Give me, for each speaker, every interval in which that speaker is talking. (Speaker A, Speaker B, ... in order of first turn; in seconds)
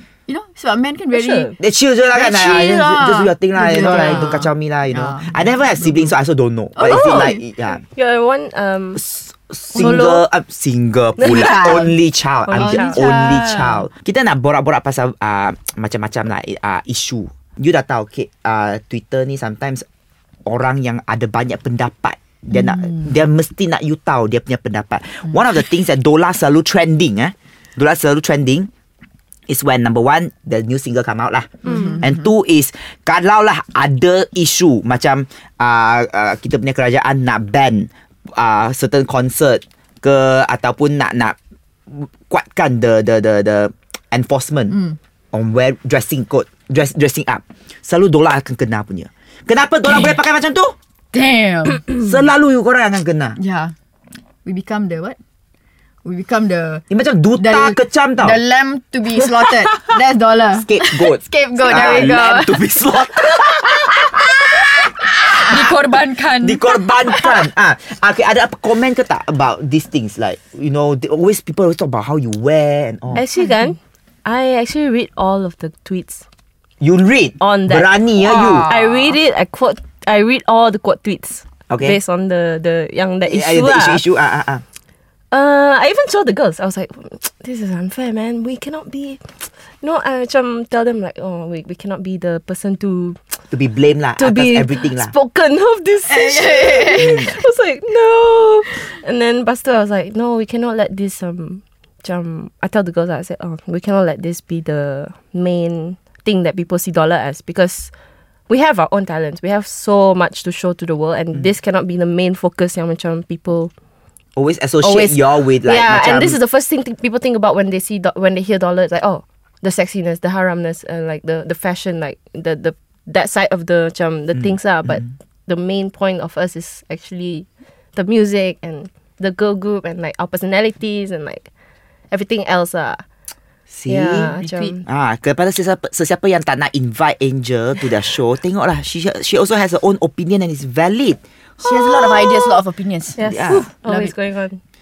Speaker A: 0.3-1.5, 2.1-6.1, 6.8-7.4, 9.8-10.2, 11.2-11.9, 12.5-13.8, 22.5-23.2, 31.6-32.3, 44.7-45.0, 51.1-52.0, 53.4-53.7, 54.4-55.2, 56.0-56.8, 57.4-63.4, 65.3-67.4, 78.2-79.1, 96.1-97.3, 134.4-134.8, 141.6-144.1
Speaker B: 1.1-1.5, 3.7-4.3, 6.8-9.0, 9.7-10.2, 11.2-11.8, 12.4-13.4, 31.7-32.0, 73.1-76.2, 77.4-84.0, 85.3-93.2, 94.2-107.9, 108.5-113.7, 114.8-131.5, 132.1-133.0, 133.9-134.8, 141.6-142.6, 143.2-144.6
Speaker C: 1.6-7.8, 8.9-19.8, 20.4-28.7, 29.5-41.4, 41.9-44.8, 45.3-50.8, 52.0-53.4, 56.9-58.4, 60.6-65.8, 66.4-73.2, 76.8-78.7, 81.7-82.0, 83.2-84.6, 93.5-95.1, 97.0-97.3, 114.3-116.4, 124.3-125.1, 133.7-134.3, 134.8-141.2, 143.2-143.7